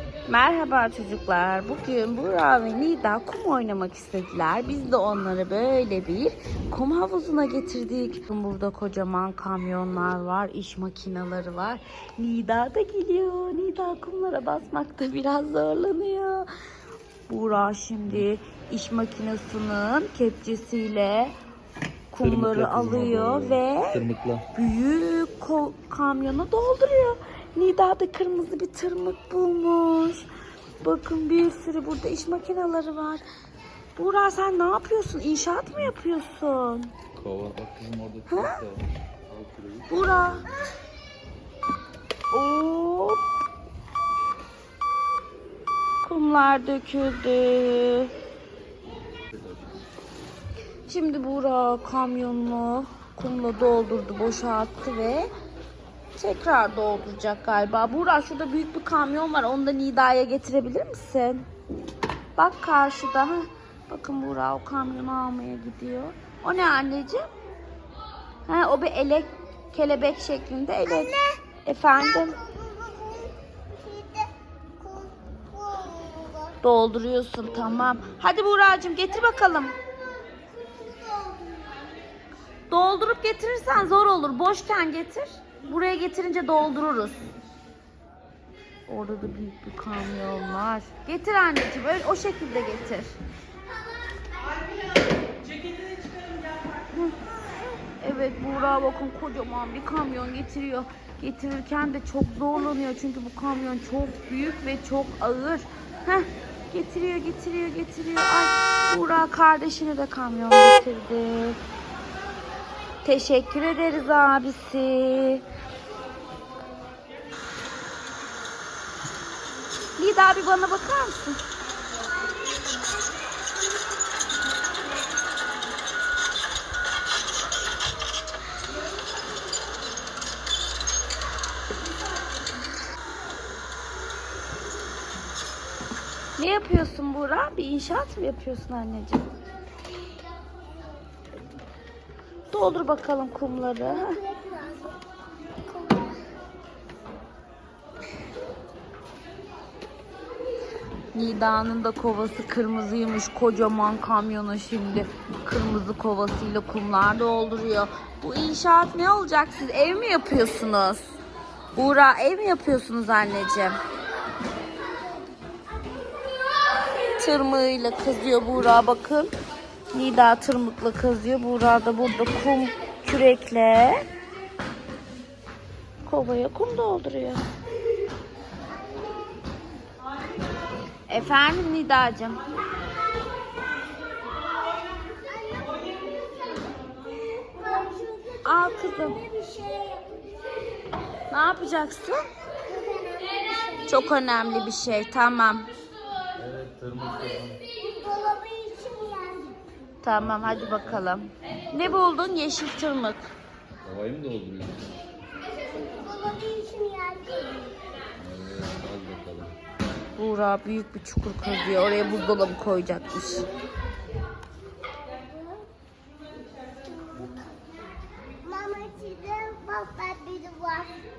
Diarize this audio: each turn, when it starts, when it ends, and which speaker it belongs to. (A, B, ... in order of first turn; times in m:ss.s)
0:00.3-0:16.5 A
0:17.3-0:21.4 A
0:22.1-0:30.3 A
0:22.2-0:24.5 B
0:30.8-0:33.2 A
0:34.0-0:36.9 A
0:37.2-0:40.6 B
0:38.3-0:38.6 A
0:39.9-0:40.5 A
0:42.3-0:43.2 A
0:46.0-0:48.1 A
0:49.3-0:49.8 B
0:50.9-0:55.3 A
0:56.2-1:01.5 A
1:02.4-1:07.3 A
1:08.5-1:12.5 A
1:12.7-1:13.3 C
1:13.8-1:14.2 C
1:14.9-1:16.5 C
1:16.6-1:19.8 A
1:17.4-1:18.2 B
1:20.8-1:21.8 C
1:22.7-1:27.3 A
1:28.9-1:33.2 A
1:36.9-1:37.3 A
1:38.0-1:51.6 A
1:53.0-1:55.5 A
2:00.0-2:01.4 A
2:16.4-2:19.3 A
2:22.5-2:24.4 A
2:31.1-2:41.2 A
2:41.7-2:43.8 A
2:47.2-2:49.3 A
2:49.9-2:54.0 A
2:56.0-2:57.4 A
3:01.1-3:02.4 A
3:05.4-3:06.8 C
3:07.7-3:08.3 C
3:08.4-3:09.3 A
3:09.4-3:10.1 C
3:11.3-3:12.2 A
3:12.7-3:13.8 C
3:13.8-3:15.7 A
3:16.4-3:17.6 B
3:18.0-3:19.6 C
3:20.0-3:23.3 A
3:20.2-3:21.1 B
3:23.8-3:25.0 B
3:25.8-3:27.8 C
3:28.2-3:29.6 B
3:30.2-3:33.5 A
3:38.4-3:41.0 C